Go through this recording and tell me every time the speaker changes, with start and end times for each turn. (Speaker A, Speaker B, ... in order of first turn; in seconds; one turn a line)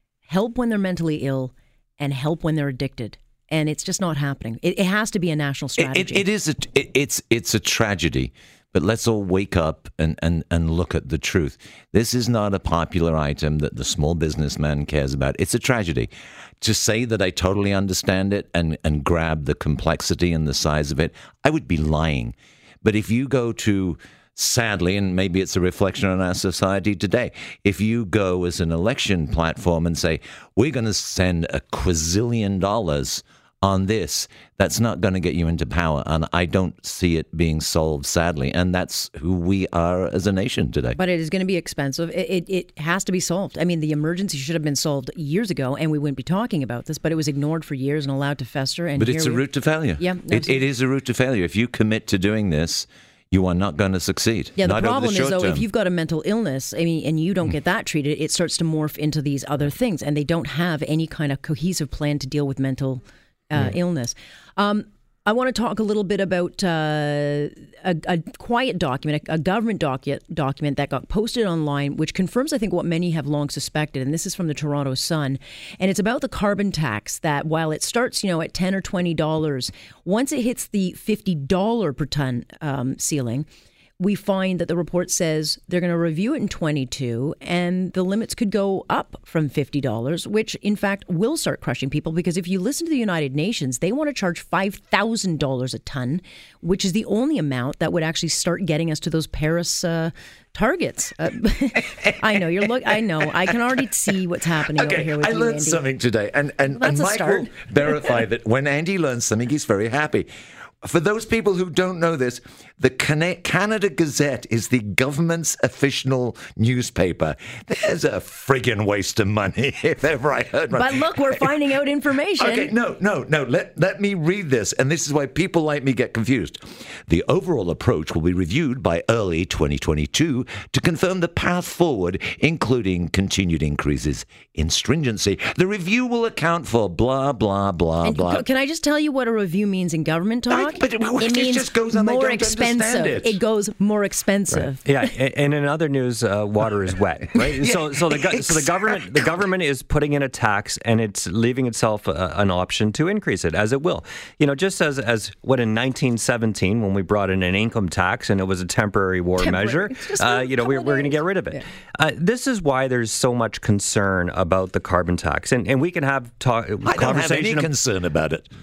Speaker A: 0.3-6.2
Speaker B: 5.8-41.0
Speaker A: 40.9-50.6
Speaker B: 49.0-55.7
Speaker A: 54.5-83.5
Speaker A: 84.0-105.8
Speaker B: 104.7-110.3
Speaker A: 106.7-108.2
Speaker B: 110.8-121.6
Speaker A: 120.7-122.7
Speaker B: 122.4-138.4
Speaker A: 138.0-144.9
Speaker B: 140.5-143.4
Speaker C: 144.5-167.7
Speaker B: 147.4-149.1
Speaker A: 159.4-161.6
Speaker B: 166.8-168.5